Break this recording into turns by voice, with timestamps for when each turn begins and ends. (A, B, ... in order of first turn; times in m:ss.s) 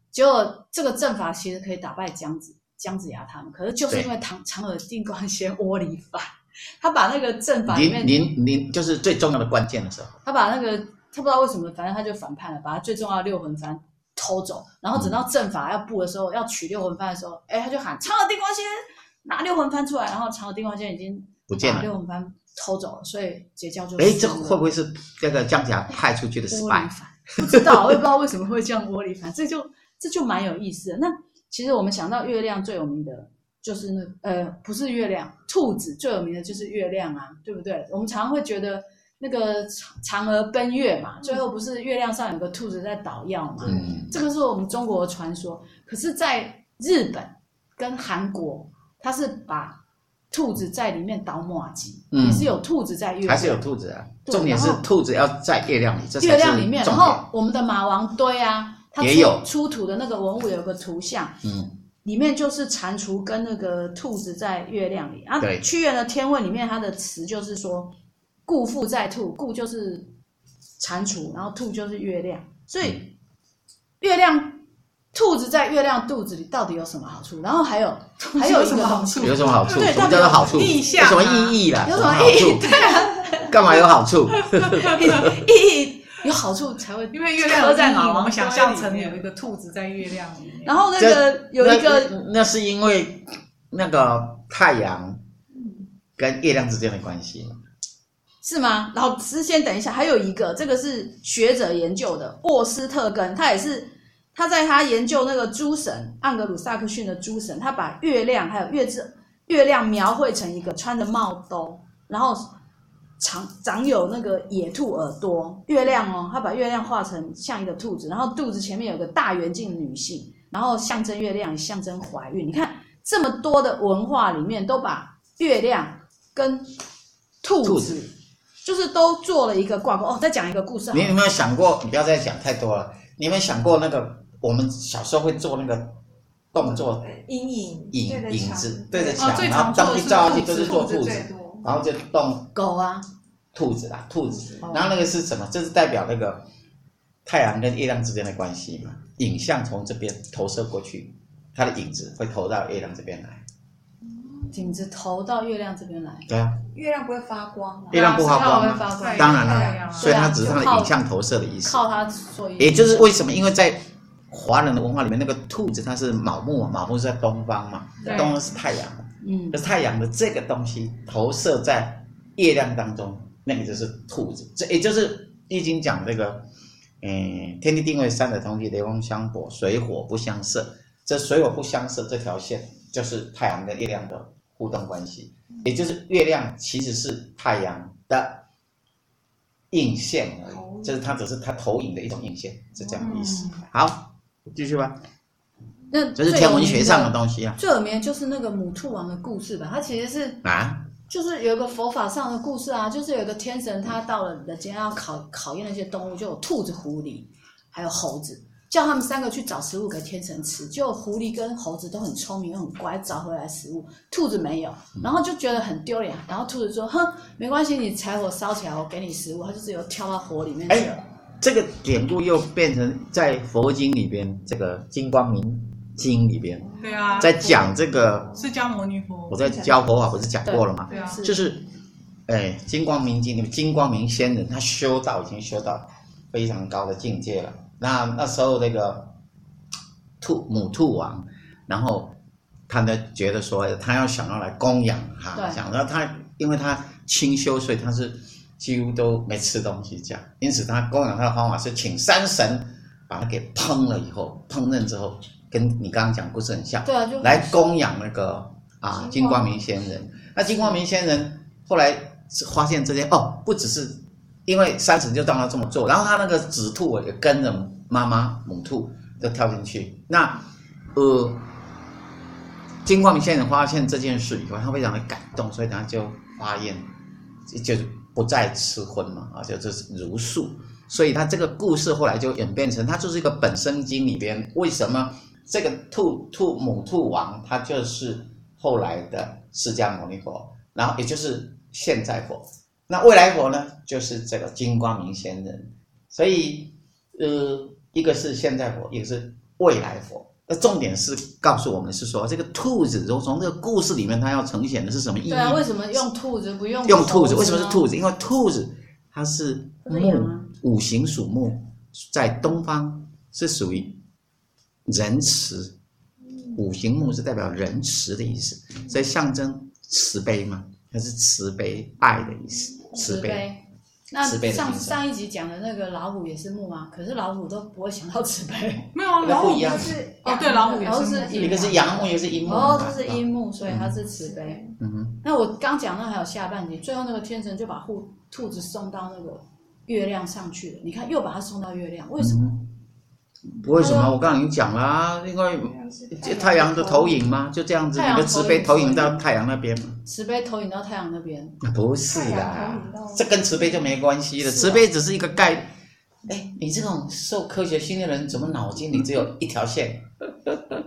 0:00.1-0:08.3 A
0:07.7-0:10.2 B
0:10.2-0:24.7 A
0:21.5-0:21.9 B
0:24.0-0:26.9 B
0:26.5-0:53.6 A
0:27.5-0:27.8 B
0:43.6-0:44.2 B
0:52.1-0:52.6 B
0:53.2-0:57.2 B
0:54.2-0:54.8 A
0:56.2-1:01.4 A
0:59.0-0:59.4 B
1:01.4-1:01.7 B
1:02.0-1:07.9 A
1:05.4-1:05.6 B
1:08.4-1:10.1 A
1:10.8-1:13.1 A
1:14.0-1:14.6 A
1:15.1-1:20.8 A
1:18.2-1:21.6 C
1:19.2-1:25.4 B
1:21.8-1:23.9 A
1:24.6-1:29.2 A
1:27.1-1:30.8 C
1:30.6-1:32.1 A
1:31.0-1:35.2 B
1:36.2-1:37.6 B
1:38.4-1:52.5 A
1:53.2-2:06.7 A
2:07.4-2:11.2 A
2:07.6-2:08.0 B
2:10.9-2:16.0 B
2:16.5-2:17.0 B
2:16.6-2:19.4 D
2:17.9-2:22.5 B
2:19.2-2:21.0 C
2:20.3-2:21.8 D
2:22.5-2:23.0 A
2:23.5-2:26.4 B
2:27.2-2:33.4 B
2:34.5-2:36.3 A
2:36.3-2:36.6 B
2:36.7-2:38.1 D
2:37.9-2:40.1 C
2:37.9-2:41.8 B
2:38.0-2:40.9 A
2:39.2-2:40.1 D
2:41.6-2:43.3 A
2:42.6-2:56.4 B
2:48.0-2:48.4 C
2:49.2-2:49.6 A
2:57.0-3:08.4 B
3:09.7-3:15.0 B
3:10.4-3:11.1 D
3:12.9-3:13.5 D
3:13.0-3:13.6 C
3:15.9-3:20.4 A
3:16.2-3:17.6 B
3:20.4-3:20.9 B
3:21.1-3:41.0 A
3:40.7-3:48.4 B
3:46.7-3:47.3 D
3:46.8-3:47.8 C
3:48.3-3:49.4 C
3:49.3-3:51.6 B
3:49.4-3:49.8 D
3:50.4-3:51.4 A
3:50.9-3:51.2 C
3:52.3-3:59.2 B
4:00.2-4:02.2 B
4:02.7-4:31.5 B
4:05.3-4:05.6 A
4:16.8-4:17.6 A
4:19.0-4:19.5 D
4:32.8-4:36.9 B
4:37.5-5:06.0 B
5:05.3-5:07.8 A
5:06.8-5:13.9 B
5:09.8-5:10.5 A
5:14.8-5:15.7 B
5:16.5-5:23.4 B
5:22.9-5:29.0 A
5:24.2-5:25.0 B
5:28.9-5:31.8 C
5:29.2-5:30.0 B
5:29.2-5:31.5 D
5:30.2-5:34.6 A
5:31.3-5:33.9 B
5:34.2-5:34.7 D
5:34.8-5:35.2 B
5:35.2-5:42.4 A
5:42.2-5:42.7 B
5:43.6-5:50.0 B
5:43.6-5:44.1 A
5:45.5-5:47.3 D
5:47.9-5:49.2 A
5:50.0-5:51.6 A
5:51.6-5:55.7 B
5:52.1-5:54.0 D
5:54.4-5:54.8 A
5:56.3-6:00.6 B